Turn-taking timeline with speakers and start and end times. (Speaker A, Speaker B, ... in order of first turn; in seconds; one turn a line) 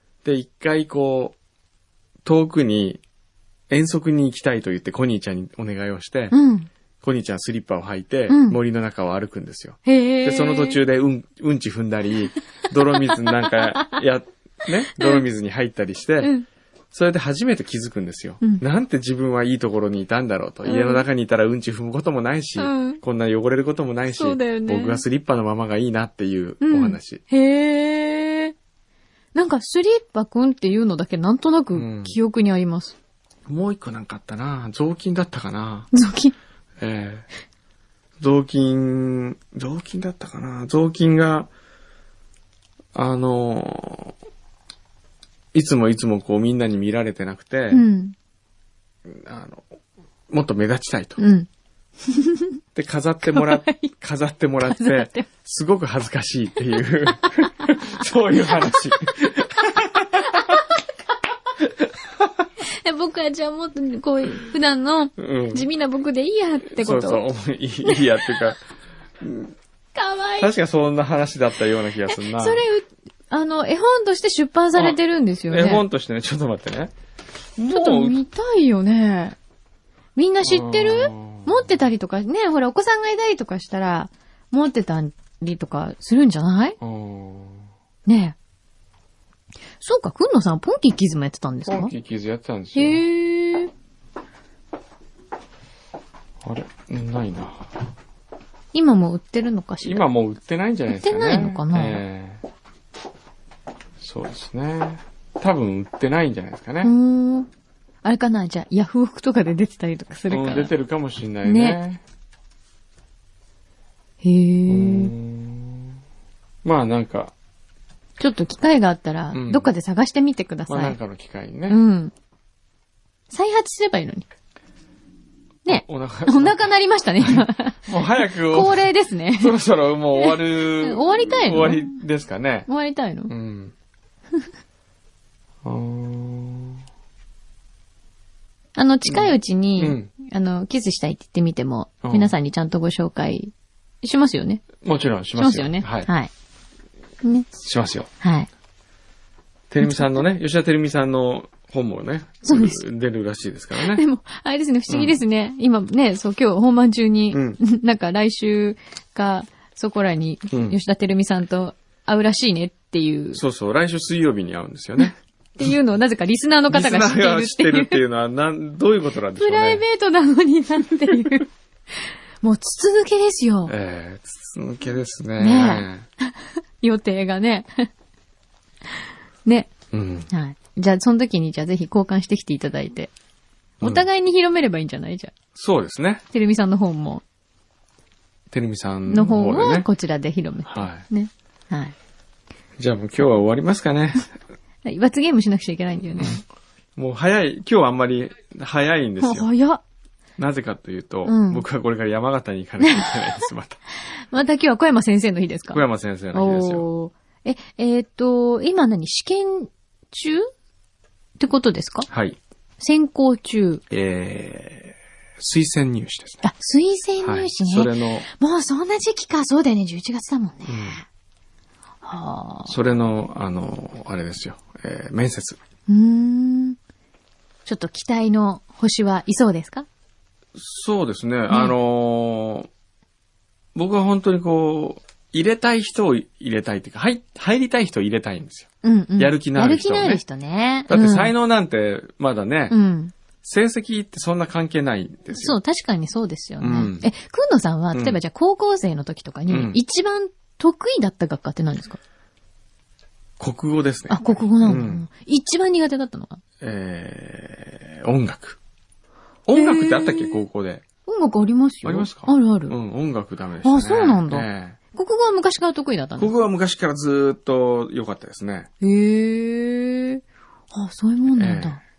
Speaker A: 0.2-1.4
Speaker A: 2.2-3.0
Speaker A: 3.7-6.3
Speaker B: 6.3-6.7
Speaker A: 7.0-16.3
Speaker B: 8.3-8.6
Speaker B: 9.8-10.8
Speaker B: 13.1-14.0
Speaker B: 14.9-15.2
Speaker A: 16.9-27.2
Speaker B: 20.6-21.0
Speaker B: 22.6-23.0
Speaker B: 24.1-25.0
Speaker B: 26.6-28.5
Speaker B: 29.3-32.9
Speaker A: 31.7-32.1
Speaker A: 33.5-35.9
Speaker B: 35.9-36.3
Speaker A: 36.8-37.2
Speaker A: 38.2-41.5
Speaker A: 42.9-44.1
Speaker A: 45.5-47.8
Speaker B: 47.7-48.1
Speaker A: 49.0-49.7
Speaker A: 50.3-51.2
Speaker B: 51.2-51.5
Speaker B: 52.0-52.5
Speaker A: 52.7-60.4
Speaker B: 53.2-53.9
Speaker B: 54.6-55.3
Speaker B: 58.5-60.6
Speaker B: 62.6-67.2
Speaker A: 65.2-65.7
Speaker A: 66.7-68.6
Speaker B: 67.8-68.5
Speaker A: 69.2-69.5
Speaker B: 69.9-70.5
Speaker A: 70.4-72.6
Speaker B: 72.1-75.8
Speaker A: 74.7-76.9
Speaker A: 77.6-78.2
Speaker B: 77.7-79.4
Speaker B: 80.2-86.8
Speaker A: 80.4-81.7
Speaker A: 86.8-87.6
Speaker B: 88.0-88.3
Speaker B: 89.8-91.9
Speaker A: 91.7-93.0
Speaker B: 92.7-93.7
Speaker A: 96.4-97.7
Speaker B: 98.7-100.0
Speaker A: 99.8-102.4
Speaker B: 100.9-102.0
Speaker A: 104.0-106.9
Speaker B: 106.8-107.5
Speaker B: 108.0-110.7
Speaker A: 110.3-112.0
Speaker B: 111.4-111.8
Speaker B: 114.2-115.1
Speaker A: 114.7-116.0
Speaker A: 116.6-117.3
Speaker B: 118.2-121.0
Speaker A: 119.3-119.7
Speaker A: 120.7-121.8
Speaker B: 121.7-122.1
Speaker B: 123.3-124.2
Speaker B: 125.6-129.5
Speaker A: 125.7-126.7
Speaker A: 127.2-128.8
Speaker A: 129.3-132.7
Speaker B: 130.1-132.0
Speaker B: 132.7-133.3
Speaker A: 133.3-133.7
Speaker A: 135.6-136.8
Speaker B: 138.8-144.7
Speaker A: 139.1-140.1
Speaker A: 142.0-142.3
Speaker A: 144.8-146.1
Speaker B: 145.3-146.3
Speaker B: 147.2-147.5
Speaker A: 147.6-148.1
Speaker B: 148.2-148.5
Speaker A: 149.7-154.0
Speaker B: 149.8-150.2
Speaker B: 152.4-152.8
Speaker B: 153.8-163.4
Speaker A: 154.9-155.2
Speaker A: 157.3-157.6
Speaker A: 160.5-160.8
Speaker A: 163.3-165.2
Speaker B: 165.6-168.0
Speaker A: 166.7-169.8
Speaker B: 169.3-171.5
Speaker B: 172.4-173.7
Speaker A: 173.7-176.1
Speaker B: 175.4-177.9
Speaker B: 179.4-179.7
Speaker A: 179.9-180.3
Speaker B: 180.3-183.1
Speaker B: 183.8-185.3
Speaker A: 183.8-184.1
Speaker A: 185.5-186.2
Speaker B: 186.3-187.2
Speaker A: 188.5-189.9
Speaker B: 189.1-191.9
Speaker A: 190.7-191.0
Speaker A: 192.8-194.3
Speaker B: 194.8-196.4
Speaker A: 196.1-196.4
Speaker A: 196.9-199.5
Speaker B: 199.2-199.8
Speaker A: 200.4-203.8
Speaker B: 201.2-201.6
Speaker B: 202.8-203.4
Speaker B: 204.1-210.5
Speaker A: 205.7-206.8
Speaker B: 211.4-212.1
Speaker A: 212.1-212.4
Speaker B: 212.8-213.8
Speaker A: 213.9-216.4
Speaker B: 216.4-221.0
Speaker A: 217.2-218.3
Speaker A: 220.7-221.0
Speaker B: 222.0-222.8
Speaker A: 222.7-225.6
Speaker B: 225.9-226.8
Speaker B: 227.7-229.8
Speaker A: 230.5-232.7
Speaker B: 231.5-231.7
Speaker A: 233.7-240.2
Speaker B: 238.8-241.3
Speaker A: 240.9-242.7
Speaker B: 242.7-243.1
Speaker A: 243.4-245.6
Speaker B: 245.3-252.0
Speaker A: 246.6-247.1
Speaker A: 247.9-248.2
Speaker A: 249.5-249.8
Speaker A: 253.4-255.0
Speaker B: 254.1-256.4
Speaker A: 256.6-258.6
Speaker A: 259.5-260.8
Speaker B: 259.5-260.4
Speaker B: 261.1-262.8
Speaker A: 261.8-264.8
Speaker B: 263.6-266.3
Speaker A: 266.2-268.7
Speaker B: 268.8-271.8
Speaker A: 271.4-271.8